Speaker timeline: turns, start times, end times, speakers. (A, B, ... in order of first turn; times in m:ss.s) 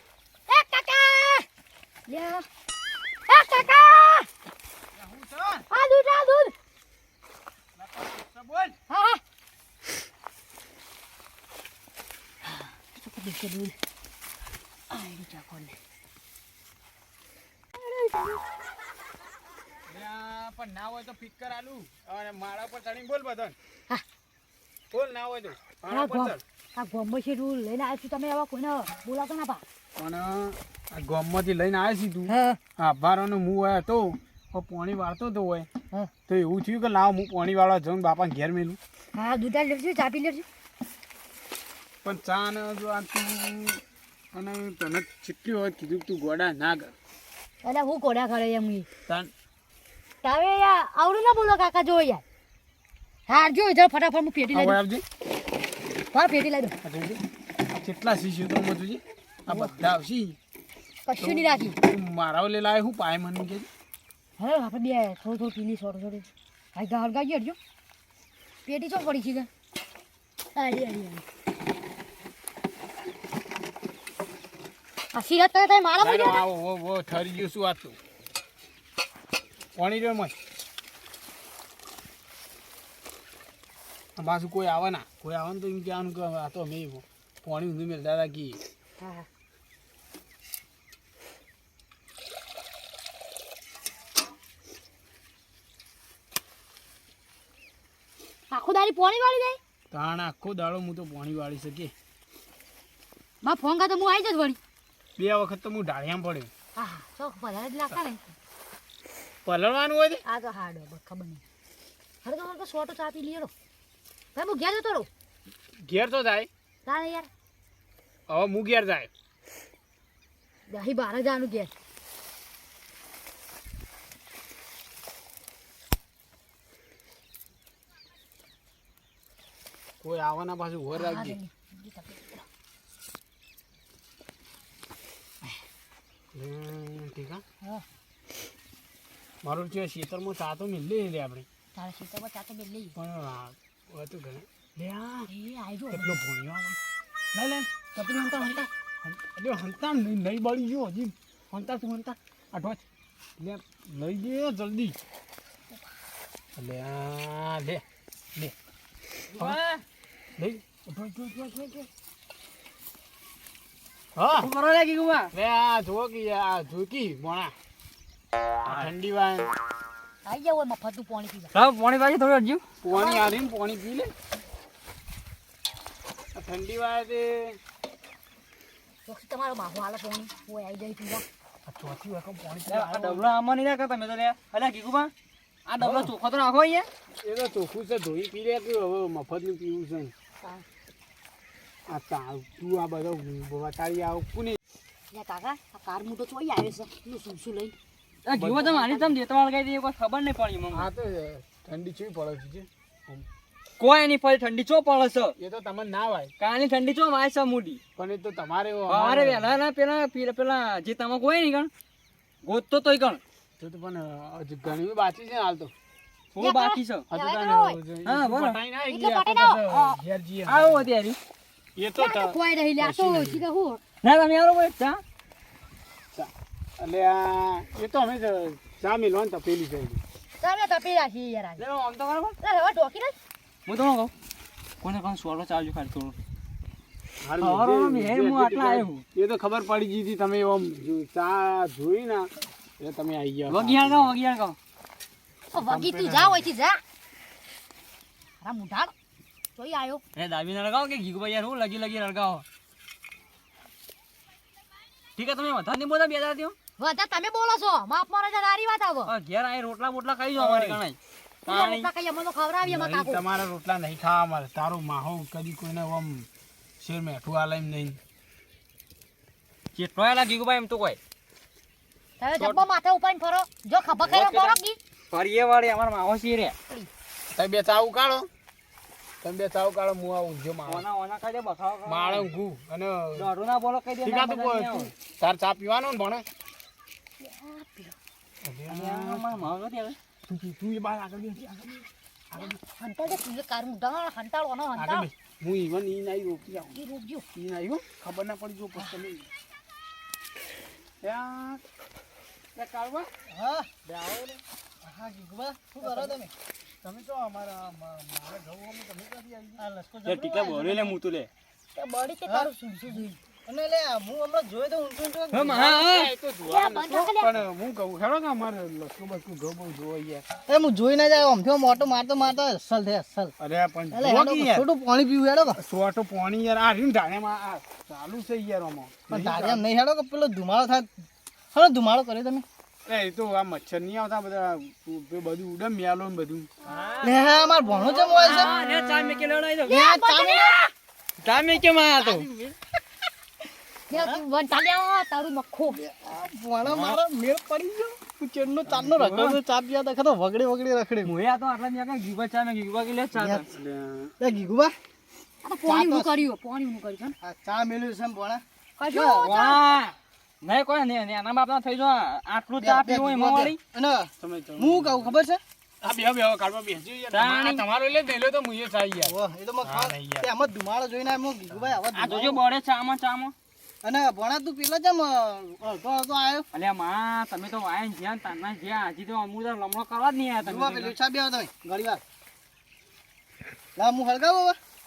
0:00.5-0:01.5 A
0:02.1-0:02.4 A
0:03.3-0:04.3 A
0:04.9-0:05.6 B
0:05.7-0:06.5 A
0:07.8-0:08.8 B
0:08.9-0:09.2 A
0:12.4-0:13.8 A
0:14.9-0:15.8 A
0:17.8-0:18.4 A
0:19.9-0:23.6 B
0:24.9-0:26.4 B
0:25.9-0:29.6 A
0:30.0-0:35.7 B
0:32.3-0:32.6 A
0:36.3-0:38.8 B
0:39.1-0:40.5 A
0:42.0-0:43.8 B
0:44.3-0:46.9 B
0:47.6-0:48.9 A
0:50.2-0:52.2 A
0:53.3-0:54.8 A
0:54.5-0:55.0 B
0:56.1-0:56.8 A
0:56.8-1:00.4 B
0:59.5-0:59.8 A
1:01.0-1:01.8 A
1:01.2-1:03.7 B
1:04.4-1:07.6 A
1:08.7-1:09.5 A
1:10.6-1:11.2 A
1:15.1-1:16.4 A
1:16.0-1:18.0 B
1:19.8-1:20.3 B
1:24.2-1:28.6 B
1:29.0-1:29.3 A
1:38.5-1:39.6 A
1:39.9-1:41.9 B
1:43.4-1:44.6 A
1:45.2-1:46.5 B
1:46.8-1:48.3 A
1:49.5-1:50.2 B
1:50.2-1:51.4 A
1:52.2-1:53.5 A
1:54.4-1:55.1 A
1:55.8-1:56.5 B
1:56.8-1:57.3 A
1:58.3-1:59.1 B
2:00.7-2:01.7 A
2:10.0-2:11.4 B
2:10.9-2:12.4 A
2:16.3-2:17.4 B
2:19.4-2:21.5 B
2:21.8-2:23.0 A
2:23.0-2:25.3 B
2:25.3-2:26.2 A
2:25.9-2:26.8 B
2:27.4-2:32.8 B
2:28.0-2:28.6 A
2:33.4-2:35.0 B
2:36.6-2:37.8 B
2:39.3-2:39.8 C
2:40.4-2:41.9 B
2:44.2-2:44.5 B
2:44.4-2:45.3 C
2:45.3-2:47.5 B
2:48.6-2:49.5 B
2:50.2-2:51.5 A
2:51.5-2:52.6 C
2:52.8-2:54.1 B
2:52.9-2:53.4 A
2:56.4-2:57.6 B
2:59.1-3:01.2 A
3:01.7-3:03.3 B
3:02.7-3:05.1 C
3:05.7-3:06.9 C
3:05.8-3:06.1 B
3:07.2-3:10.1 B
3:11.9-3:14.6 B
3:15.1-3:17.8 A
3:18.3-3:20.9 C
3:18.3-3:19.1 B
3:20.7-3:23.3 B
3:23.8-3:25.4 C
3:25.4-3:26.3 B
3:26.4-3:27.8 C
3:28.0-3:29.5 B
3:28.9-3:31.7 C
3:32.4-3:33.2 C
3:33.6-3:35.7 B
3:36.4-3:37.1 C
3:36.4-3:37.8 A
3:37.1-3:40.9 B
3:38.0-3:38.6 C
3:38.9-3:39.6 A
3:39.7-3:41.2 C
3:41.8-3:43.4 B
3:42.0-3:43.8 A
3:44.0-3:45.0 C
3:46.1-3:50.0 B
3:50.4-3:51.6 A
3:51.6-3:52.4 C
3:52.4-3:53.2 A
3:53.7-3:54.1 C
3:54.8-3:56.2 C
3:57.2-4:04.1 B
3:57.4-3:59.0 C
4:03.5-4:04.6 C
4:05.5-4:06.8 A
4:05.6-4:06.5 B
4:08.4-4:08.9 A
4:09.6-4:10.0 A
4:10.2-4:12.4 C
4:15.2-4:16.6 C
4:16.8-4:19.1 A
4:19.1-4:21.9 C
4:20.4-4:20.8 B
4:21.5-4:23.2 A
4:22.6-4:26.3 B
4:26.8-4:28.0 B
4:29.7-4:31.0 C
4:32.2-4:34.8 A
4:32.4-4:32.6 C
4:34.0-4:34.6 C
4:35.1-4:36.6 C
4:37.3-4:38.3 B
4:39.2-4:40.8 B
4:40.7-4:42.3 C
4:41.9-4:43.3 B
4:43.2-4:44.9 C
4:44.0-4:46.2 B
4:47.2-4:48.0 A
4:48.4-4:49.5 B
4:48.7-4:50.0 C
4:50.3-4:52.6 B
4:52.4-4:55.1 A
4:54.8-4:56.8 B
4:56.7-4:57.2 A
4:57.3-4:59.3 B
5:01.0-5:01.6 B
5:02.6-5:03.1 B
5:03.3-5:03.9 D
5:04.8-5:06.3 D
5:06.8-5:09.7 B
5:09.6-5:11.0 D
5:10.1-5:11.3 C
5:11.8-5:13.2 A
5:12.2-5:15.7 D
5:15.3-5:16.1 C
5:15.5-5:20.2 B
5:16.4-5:17.4 A
5:20.5-5:23.3 D
5:23.4-5:24.7 B
5:23.9-5:25.6 D
5:25.6-5:29.6 B
5:29.1-5:30.9 D
5:31.5-5:32.4 D
5:32.9-5:36.5 B
5:36.6-5:37.2 C
5:37.0-5:38.5 D
5:37.8-5:39.8 C
5:39.7-5:40.6 D
5:39.7-5:40.7 A
5:41.2-5:42.3 C
5:42.0-5:42.6 D
5:43.9-5:45.8 A
5:43.9-5:44.2 D
5:45.8-5:51.1 D
5:48.8-5:49.4 C
5:51.0-5:53.5 C
5:53.5-5:54.2 B
5:54.2-5:54.8 D
5:55.4-5:57.2 A
5:55.7-5:56.2 D
5:57.2-5:59.4 D
5:58.8-5:59.6 A
5:59.2-6:03.6 C
6:02.6-6:05.4 D
6:04.2-6:05.1 B
6:05.8-6:10.3 B
6:07.1-6:07.7 C
6:09.0-6:12.4 D
6:11.9-6:13.3 C
6:13.8-6:16.5 D
6:16.5-6:21.0 C
6:20.4-6:22.0 D
6:23.8-6:24.6 D